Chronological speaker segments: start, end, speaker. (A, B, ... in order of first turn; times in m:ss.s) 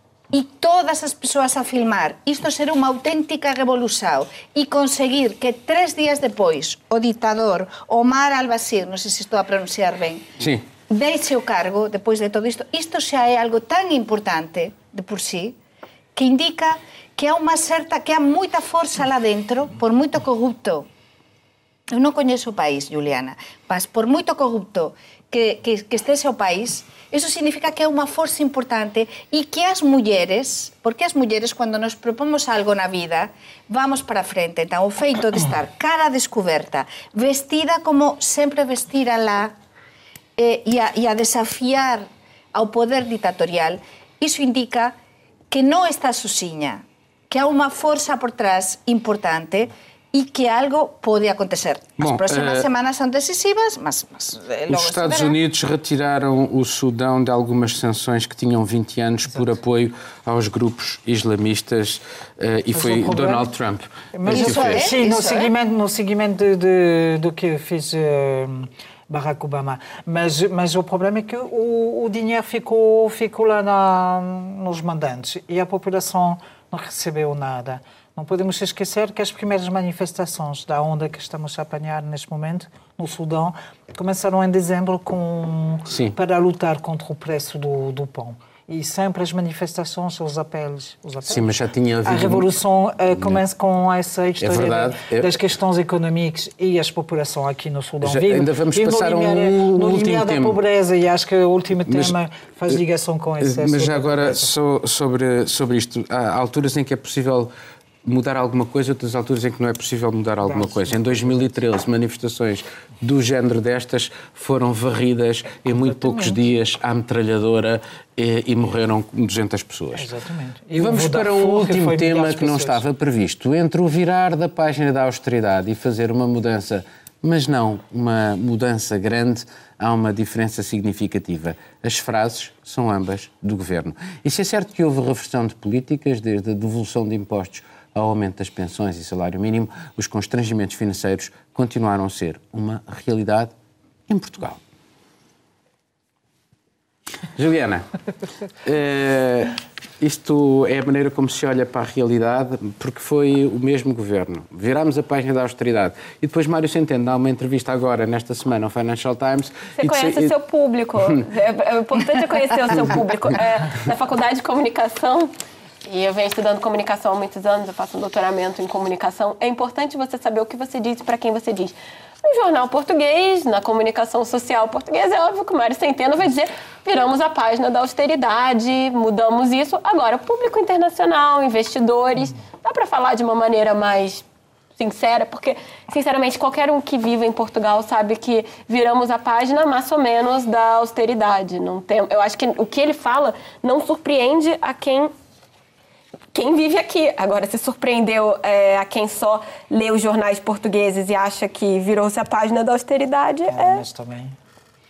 0:00.3-0:10.3 A
0:10.4-0:10.7 B
0:10.9-0:15.6 A
0:16.2-0:20.9 A
0:21.9-0:39.5 A
0:40.4-0:44.9 A
0:45.5-0:55.4 A
0:52.0-0:52.7 B
0:54.7-1:04.9 B
1:02.7-1:03.5 C
1:04.1-1:31.5 C
1:04.3-1:05.5 A
1:25.9-1:26.2 B
1:31.3-1:32.5 B
1:32.0-1:44.5 C
1:34.4-1:35.3 B
1:38.0-1:40.6 B
1:41.9-1:42.1 B
1:43.4-1:47.5 B
1:48.0-2:00.1 B
1:50.4-1:51.4 C
1:55.7-1:56.5 C
2:00.0-2:02.8 C
2:00.8-2:23.5 B
2:24.1-2:24.6 B
2:27.4-2:27.8 B
2:28.6-2:40.3 B
2:39.8-2:45.3 D
2:45.9-3:04.2 D
3:04.8-3:15.1 D
3:16.3-3:23.8 D
3:23.5-3:24.4 C